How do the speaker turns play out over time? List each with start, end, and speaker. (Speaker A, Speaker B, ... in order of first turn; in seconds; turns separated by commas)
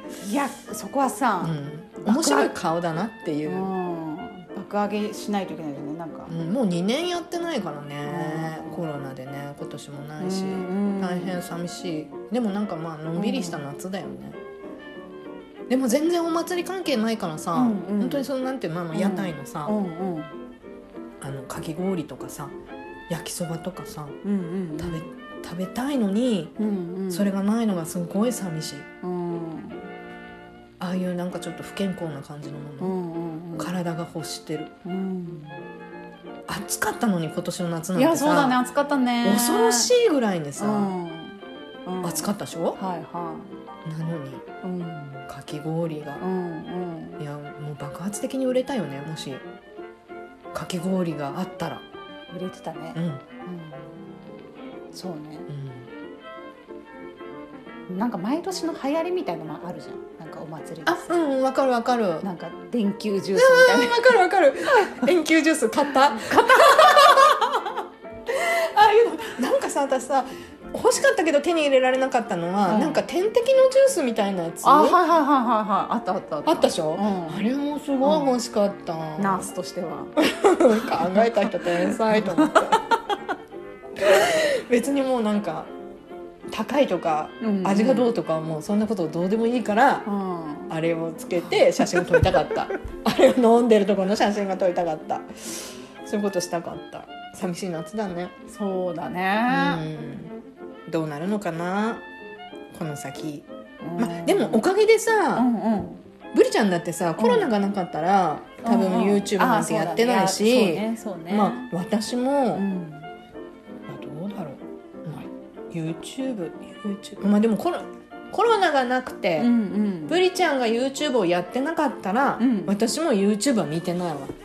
Speaker A: 0.2-2.5, Speaker B: 1.4-3.7, Speaker A: 3.4-6.3, Speaker B: 6.3-14.4, Speaker A: 8.1-8.8, Speaker A: 10.2-11.4, Speaker A: 13.1-13.6, Speaker B: 15.7-19.8, Speaker A: 17.5-18.3, Speaker A: 18.9-20.3, Speaker B: 21.2-22.6, Speaker B: 23.1-24.2, Speaker A: 24.2-25.1, Speaker B: 24.8-26.6, Speaker A: 26.6-27.3, Speaker B: 27.1-28.9, Speaker A: 29.0-29.9, Speaker B: 30.8-33.0, Speaker A: 32.8-33.8, Speaker B: 33.6-34.7, Speaker A: 34.8-35.6, Speaker B: 36.5-38.6, Speaker A: 38.0-39.9, Speaker B: 39.2-40.9, Speaker A: 40.6-43.6, Speaker B: 42.0-42.8, Speaker B: 43.8-44.4, Speaker A: 44.6-45.3, Speaker B: 45.3-46.2, Speaker A: 46.2-47.2, Speaker B: 47.2-49.4, Speaker B: 50.5-51.8, Speaker A: 52.3-54.0, Speaker B: 52.9-53.2, Speaker A: 54.9-55.5, Speaker B: 55.5-55.9, Speaker A: 57.9-61.3, Speaker B: 60.9-62.3, Speaker A: 62.2-64.2, Speaker B: 63.3-67.4, Speaker A: 64.7-65.1, Speaker A: 66.1-67.7, Speaker B: 68.3-75.0, Speaker A: 72.7-73.0, Speaker A: 74.6-77.5, Speaker B: 76.5-79.5, Speaker A: 78.0-78.4, Speaker A: 79.2-80.2, Speaker B: 80.2-82.8, Speaker A: 80.7-83.0, Speaker B: 84.0-85.7, Speaker B: 86.5-90.1, Speaker A: 87.4-88.1, Speaker A: 90.0-90.8, Speaker B: 90.7-98.3, Speaker A: 91.5-92.6, Speaker A: 98.5-99.8, Speaker B: 99.5-100.3, Speaker B: 100.9-102.0, Speaker B: 102.7-105.5, Speaker A: 103.8-104.6, Speaker A: 105.3-106.0, Speaker B: 106.3-112.6, Speaker A: 107.2-107.5, Speaker A: 108.6-111.7, Speaker A: 112.5-113.1, Speaker B: 113.9-119.5, Speaker A: 119.4-120.2, Speaker B: 120.1-124.3, Speaker A: 122.4-122.8